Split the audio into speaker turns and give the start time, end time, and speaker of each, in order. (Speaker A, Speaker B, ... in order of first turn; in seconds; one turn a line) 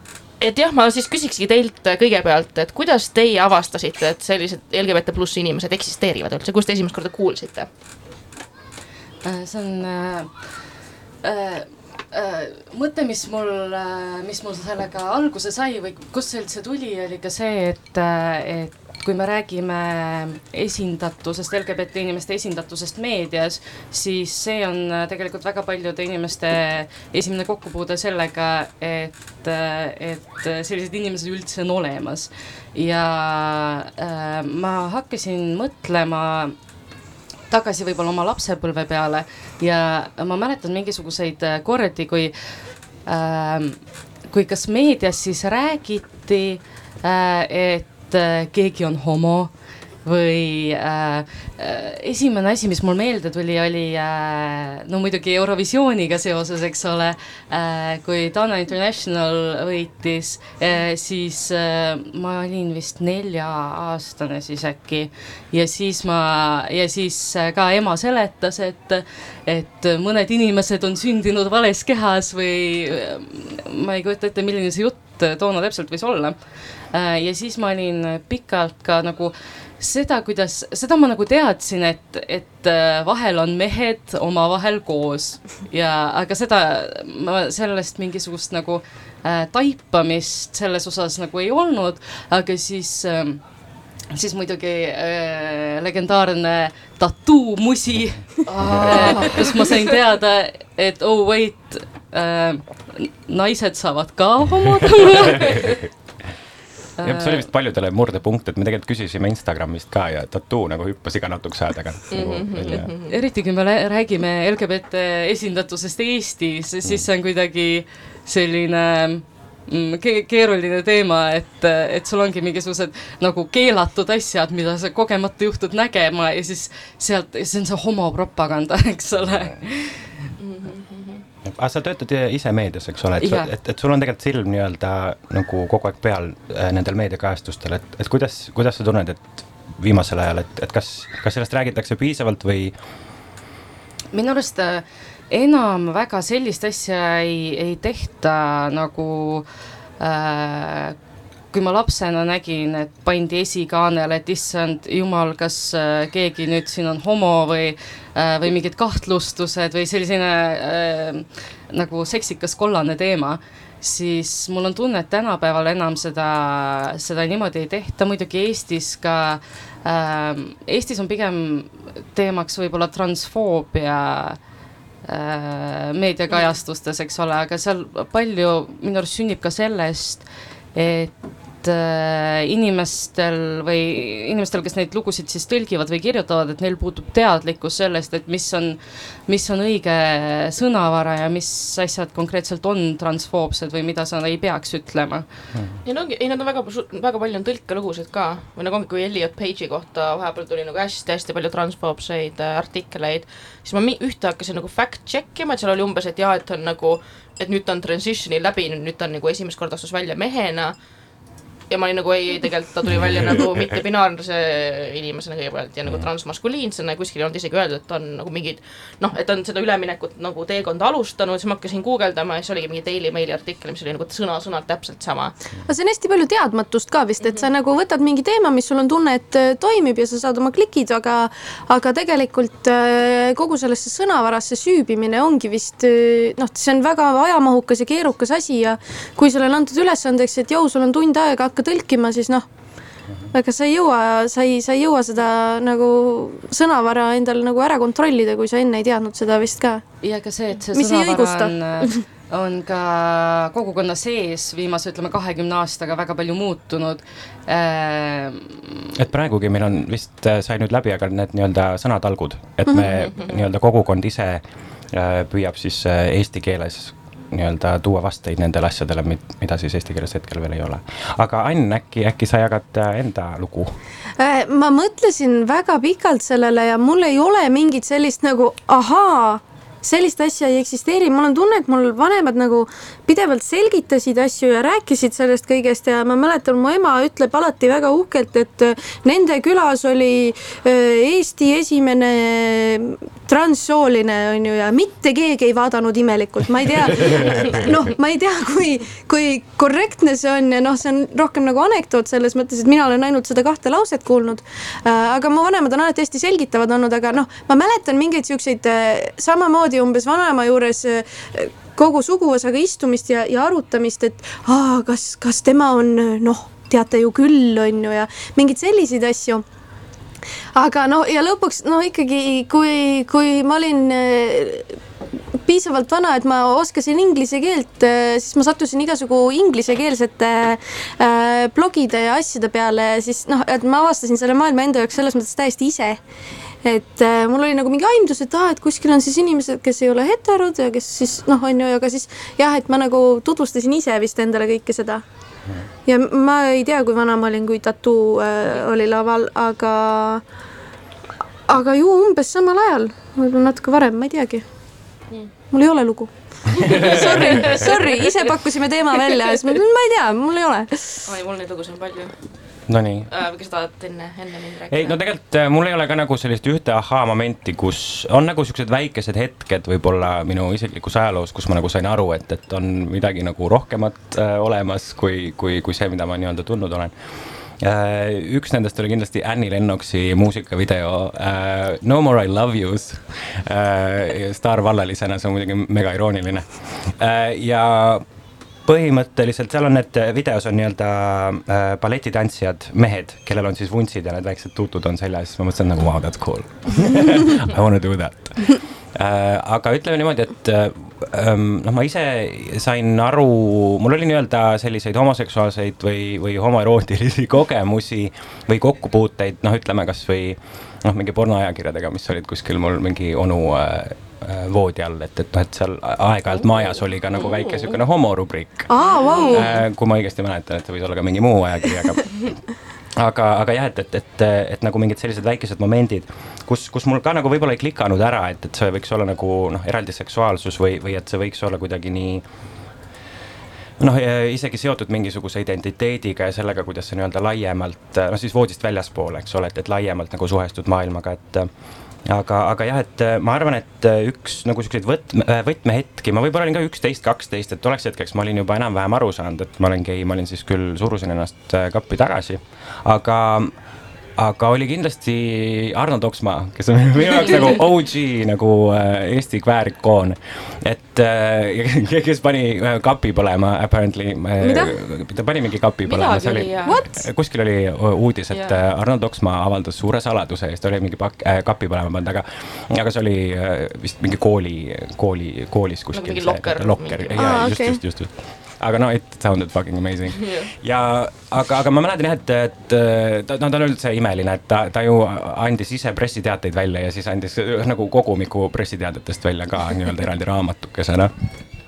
Speaker A: 0.4-7.7
Speaker B: 9.2-10.5
Speaker B: 11.2-36.5
Speaker B: 37.5-76.3
Speaker B: 76.9-93.4
Speaker B: 94.1-105.8
Speaker C: 98.6-99.2
Speaker A: 98.9-99.2
Speaker B: 107.0-107.5
Speaker C: 107.0-112.9
Speaker A: 112.1-113.2
Speaker B: 113.0-130.2
Speaker A: 130.4-131.2
Speaker C: 131.4-142.7
Speaker B: 133.2-133.5
Speaker B: 144.1-149.4
Speaker B: 150.0-150.9
Speaker B: 151.5-174.4
Speaker B: 175.0-195.2
Speaker A: 195.8-210.7
Speaker A: 211.7-225.3
Speaker D: 225.7-242.4
Speaker D: 243.3-249.8
Speaker B: 250.0-258.9
Speaker D: 250.7-252.0
Speaker C: 258.9-264.4
Speaker C: 264.9-273.7
Speaker D: 274.2-319.4
Speaker C: 297.2-297.8
Speaker D: 320.5-324.7
Speaker D: 325.4-336.0
Speaker D: 336.6-345.0
Speaker D: 345.9-350.2
Speaker D: 351.5-354.4
Speaker D: 355.5-361.1
Speaker A: 356.6-358.3
Speaker C: 356.7-357.6
Speaker A: 361.0-362.1
Speaker C: 362.7-363.1
Speaker A: 363.1-365.0
Speaker C: 364.7-376.9
Speaker C: 377.6-388.0
Speaker C: 388.6-422.4
Speaker A: 417.1-417.7
Speaker D: 418.7-419.5
Speaker A: 418.8-419.6
Speaker C: 423.0-432.2
Speaker C: 433.8-441.5
Speaker C: 442.1-453.5
Speaker C: 454.2-491.1
Speaker D: 464.4-464.7
Speaker A: 465.9-466.8
Speaker A: 468.3-468.6
Speaker A: 475.9-477.4
Speaker D: 477.2-477.8
Speaker A: 480.2-480.5